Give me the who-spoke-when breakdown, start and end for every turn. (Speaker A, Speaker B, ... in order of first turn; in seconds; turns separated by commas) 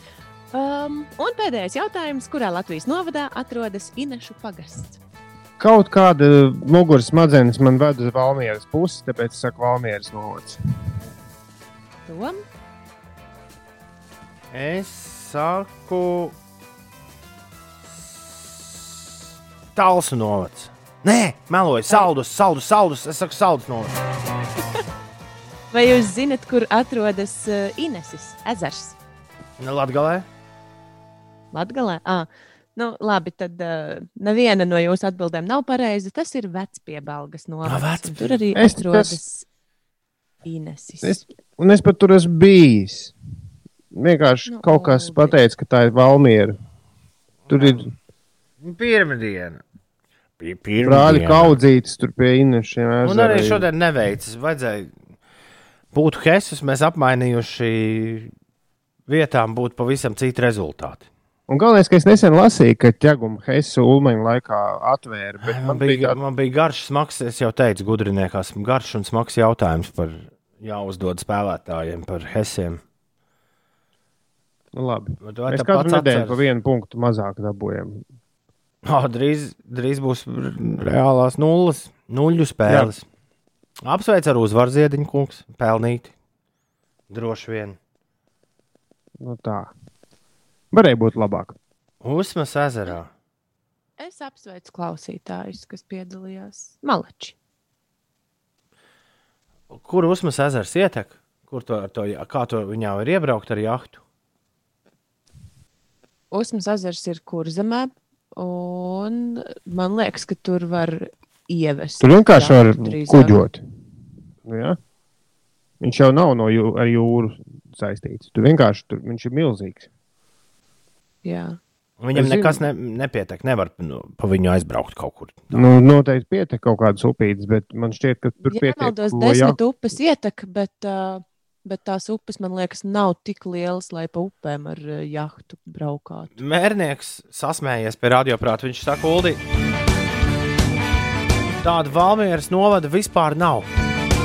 Speaker A: 0.5-5.0, Speaker B: 5.6-10.6, Speaker A: 12.1-12.4, Speaker C: 14.5-16.4, Speaker C: 18.2-18.8, Speaker C: 19.8-23.9, Speaker A: 25.7-29.0, Speaker C: 29.6-30.2, Speaker A: 31.5-39.5, Speaker C: 37.7-38.4, Speaker B: 38.5-39.2, Speaker A: 40.5-41.2, Speaker B: 41.0-43.1, Speaker B: 43.9-46.6, Speaker A: 44.5-45.4, Speaker C: 47.5-47.9, Speaker B: 47.5-47.9, Speaker C: 48.6-49.6, Speaker C: 50.4-51.6, Speaker B: 50.8-53.7, Speaker C: 53.0-54.9, Speaker C: 55.9-58.3, Speaker C: 59.1-61.1, Speaker B: 61.5-66.2, Speaker C: 65.4-72.8, Speaker B: 74.7-78.0, Speaker C: 75.2-76.4, Speaker C: 78.8-83.0, Speaker C: 83.8-86.1, Speaker C: 87.1-87.8, Speaker B: 89.2-89.7, Speaker B: 90.7-91.6, Speaker C: 92.0-93.1, Speaker A: 94.0-97.3, Speaker C: 99.7-104.0, Speaker A: 106.3-113.4, Speaker B: 112.0-113.6, Speaker B: 114.5-114.8, Speaker B: 115.8-119.9, Speaker A: 121.2-121.6, Speaker C: 122.0-125.6, Speaker B: 122.2-122.6, Speaker B: 125.5-129.6, Speaker A: 128.5-136.3, Speaker C: 136.4-139.4, Speaker C: 141.6-143.7